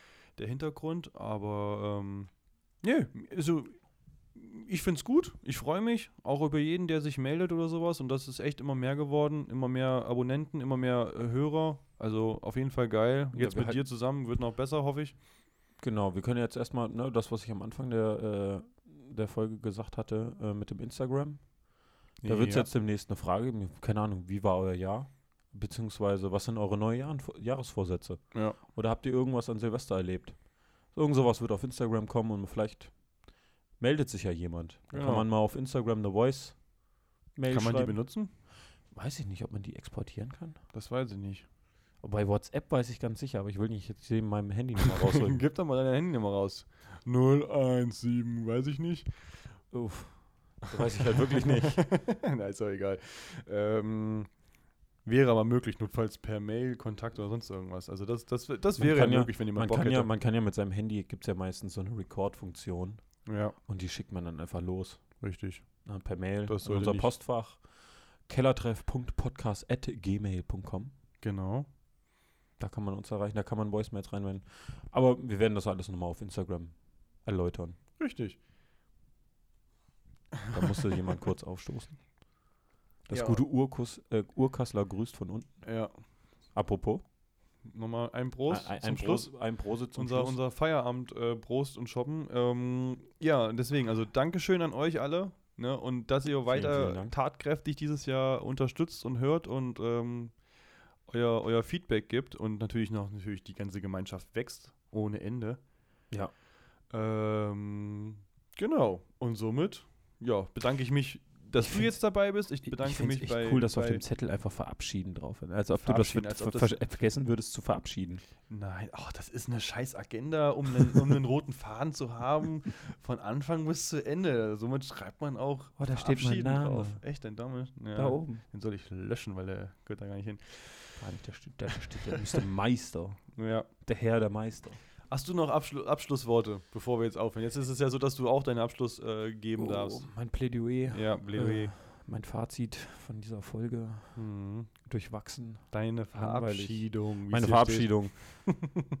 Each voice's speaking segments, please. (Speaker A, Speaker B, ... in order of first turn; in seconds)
Speaker A: 0.3-2.3, 2.8-3.8, 4.3-15.2, 22.2-22.7, 28.3-28.6, 34.9-35.2, 37.5-38.3, 40.7-41.5, 44.8-49.1, 51.0-54.3, 55.0-60.1, 63.2-63.5, 65.2-65.6, 66.4-67.1, 71.2-71.7, 78.0-78.4, 83.1-83.4, 85.6-85.9, 87.7-89.3, 89.9-100.3, 101.1-105.6, 106.9-114.0, 115.7-116.8, 118.5-131.0, 131.7-132.4, 133.3-133.7, 135.1-140.1, 140.9-141.7, 144.1-144.7, 145.7-148.8
Speaker B: 13.3-13.8, 15.8-21.5, 22.2-32.9, 33.8-36.6, 37.3-38.0, 38.9-40.6, 42.0-45.4, 49.7-51.8, 58.8-65.0, 65.8-67.6, 68.2-70.9, 72.6-77.8, 80.5-82.0, 83.1-85.6, 86.5-87.0, 88.5-90.3, 96.5-97.1, 111.6-112.1, 112.6-118.2, 125.8-127.0, 128.0-128.4, 131.0-133.2, 133.8-134.8, 139.6-144.2, 144.8-148.4